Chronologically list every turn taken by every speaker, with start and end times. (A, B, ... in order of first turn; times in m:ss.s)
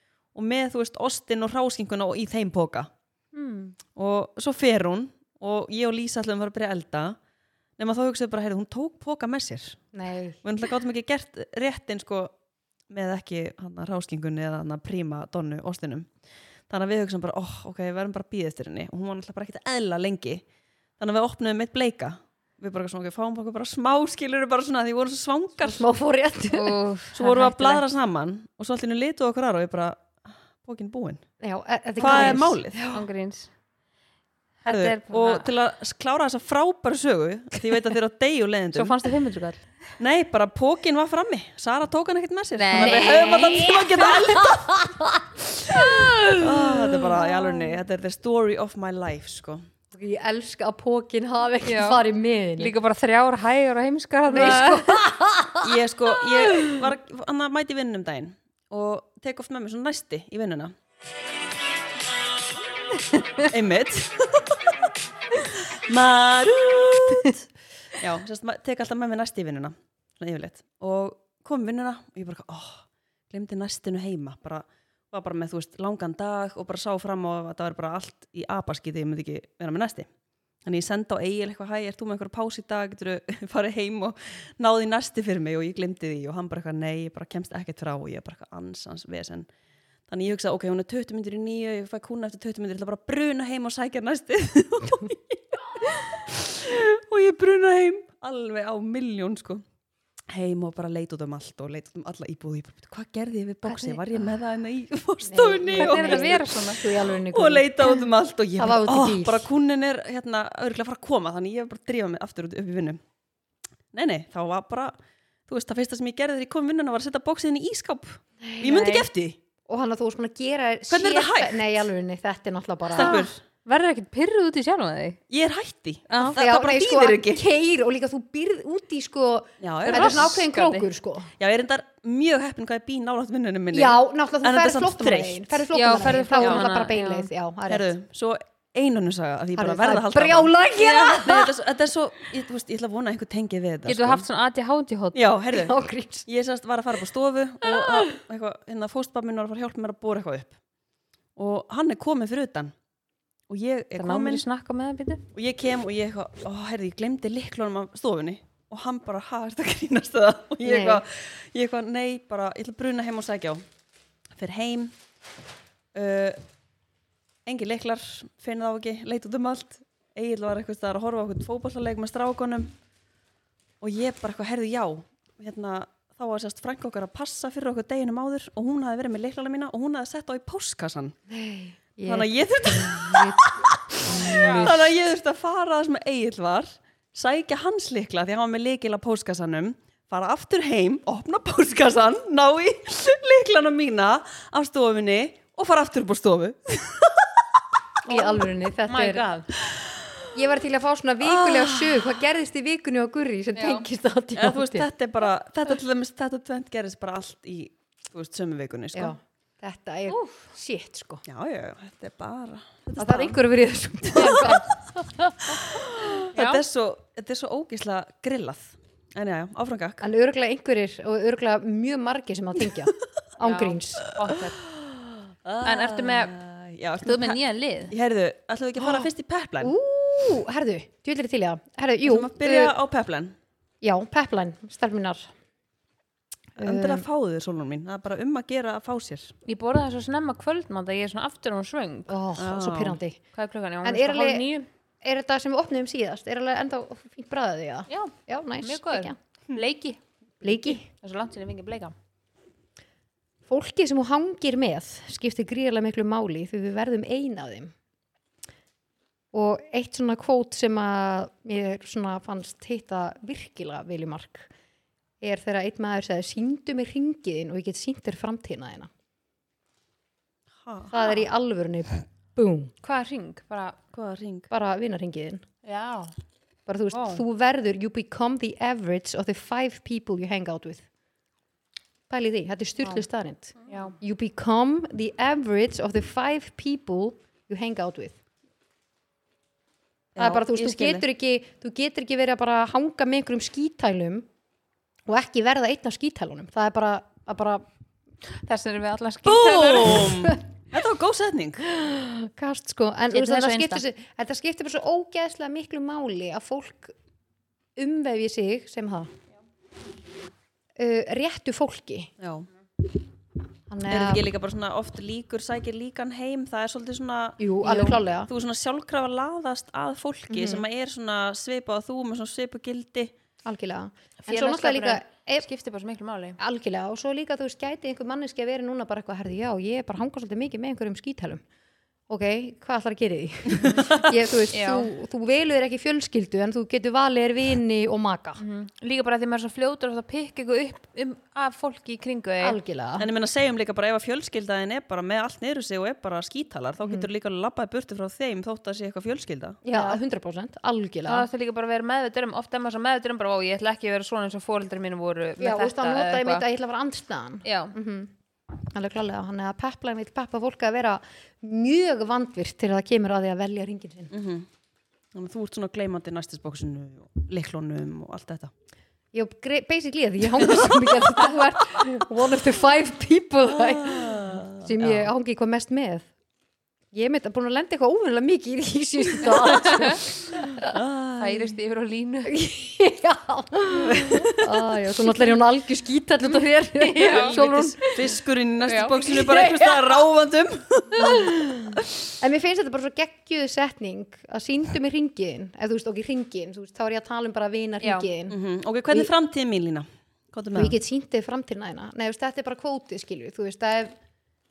0:00.3-0:02.9 A
0:03.4-0:03.7 B
0:04.0-0:07.2 A
0:07.8-0:09.8 A
0:09.9-0:10.4 C
0:10.4-0:12.3 A
0:12.9-0:16.1 A
0:16.7-0:20.4 A
0:21.0-0:25.8 A
0:25.6-0:26.8 C
0:26.5-0:27.8 B
0:27.1-0:31.2 A
0:31.4-0:33.0 C
0:32.0-0:32.8 A
0:32.0-0:33.5 B
0:34.6-0:35.5 B
0:34.7-0:39.0 A
0:38.7-0:39.7 B
0:40.0-0:44.9 A
0:42.6-0:43.8 B
0:42.8-0:45.1 C
0:45.7-0:49.6 A
0:45.7-0:46.5 C
0:45.8-0:46.4 B
0:47.3-0:47.6 C
0:49.9-0:52.7 C
0:51.6-0:52.0 B
0:52.6-0:55.0 B
0:54.3-0:55.7 C
0:55.6-1:00.7 A
1:03.3-1:04.5 A
1:05.3-1:20.1 A
1:20.6-1:29.5 A
1:30.1-1:39.6 A
1:40.3-1:53.0 A
1:43.7-1:44.0 C
1:45.2-1:49.5 C
1:45.7-1:46.8 B
1:53.9-1:54.9 A
1:55.5-1:59.4 A
1:58.4-1:58.9 C
1:58.6-1:59.0 B
1:59.7-2:03.2 C
2:00.9-2:01.8 A
2:02.9-2:03.4 A
2:03.0-2:05.2 B
2:05.3-2:07.4 A
2:06.1-2:06.4 B
2:06.2-2:11.3 C
2:09.6-2:10.4 A
2:09.9-2:10.8 B
2:11.4-2:15.6 A
2:13.7-2:17.9 C
2:15.7-2:17.3 B
2:16.4-2:16.7 A
2:17.7-2:24.2 A
2:19.6-2:21.5 C
2:23.9-2:25.2 B
2:25.1-2:25.7 A
2:25.5-2:26.2 C
2:26.2-2:30.5 A
2:31.4-2:32.7 A
2:33.5-2:34.4 A
2:33.9-2:35.2 B
2:35.3-2:43.6 A
2:40.6-2:41.0 C
2:44.4-2:44.9 A
2:45.9-2:46.4 A
2:47.4-2:52.7 A
2:53.8-3:01.1 A
3:01.3-3:04.9 C
3:02.0-3:17.4 A
3:04.1-3:04.7 B
3:18.0-3:19.2 C
3:18.9-3:19.5 B
3:19.7-3:20.2 A
3:20.3-3:24.9 C
3:21.2-3:22.2 A
3:23.6-3:23.8 B
3:24.4-3:29.1 A
3:28.9-3:31.2 C
3:30.1-3:30.5 B
3:31.2-3:33.4 A
3:33.0-3:35.6 C
3:34.1-3:34.6 A
3:34.1-3:34.6 B
3:35.5-3:40.0 A
3:36.3-3:36.6 B
3:40.0-3:44.1 C
3:43.4-3:44.6 B
3:44.6-3:49.7 A
3:45.6-3:46.3 B
3:47.0-3:47.9 B
3:48.8-3:49.1 C
3:49.6-3:52.7 C
3:52.0-3:53.4 A
3:53.8-3:55.3 C
3:56.6-3:57.0 C
3:56.6-3:59.3 A
3:59.4-4:02.1 B
4:02.1-4:03.2 C
4:02.4-4:03.0 A
4:03.3-4:04.7 B
4:03.8-4:04.5 C
4:05.0-4:09.2 C
4:07.9-4:11.9 B
4:10.4-4:10.8 C
4:13.5-4:17.7 C
4:19.3-4:24.5 C
4:25.2-4:28.9 C
4:30.6-4:30.9 A
4:30.9-4:32.7 C
4:32.8-4:33.8 B
4:33.9-4:34.5 A
4:34.5-4:35.4 C
4:35.6-4:36.1 B
4:36.7-4:40.8 C
4:36.9-4:37.2 B
4:42.1-4:48.2 C
4:43.6-4:44.0 B
4:50.2-4:51.0 A
4:50.2-4:54.3 C
4:55.1-4:57.6 C
4:58.4-5:00.1 B
4:59.2-5:01.6 A
5:01.6-5:06.9 C
5:03.1-5:03.8 B
5:07.8-5:09.1 C
5:10.8-5:12.1 C
5:12.2-5:12.5 A
5:13.7-5:14.3 C
5:13.9-5:23.1 A
5:17.4-5:18.3 C
5:17.6-5:18.0 B
5:20.3-5:20.6 C
5:23.4-5:25.4 C
5:24.2-5:26.4 B
5:26.4-5:31.4 C
5:32.1-5:38.4 C
5:33.6-5:34.1 A
5:34.5-5:34.9 B
5:38.4-5:42.6 B
5:42.4-5:43.1 C
5:43.0-5:49.6 A
5:49.6-5:51.3 C
5:49.7-5:50.0 B
5:51.0-5:56.4 B
5:55.4-6:04.1 C
5:57.4-5:57.7 B
6:04.1-6:04.5 A
6:05.1-6:08.5 A
6:09.1-6:16.1 C
6:13.5-6:15.1 A
6:16.9-6:20.7 C
6:19.5-6:20.0 B
6:20.6-6:21.5 A
6:21.2-6:22.4 B
6:22.3-6:28.1 C
6:23.8-6:24.6 A
6:26.8-6:27.9 B
6:27.0-6:31.8 A
6:28.7-6:28.9 B
6:28.9-6:30.0 C
6:31.0-6:38.4 C
6:37.8-6:38.1 B
6:38.3-6:40.8 A
6:40.5-6:44.0 C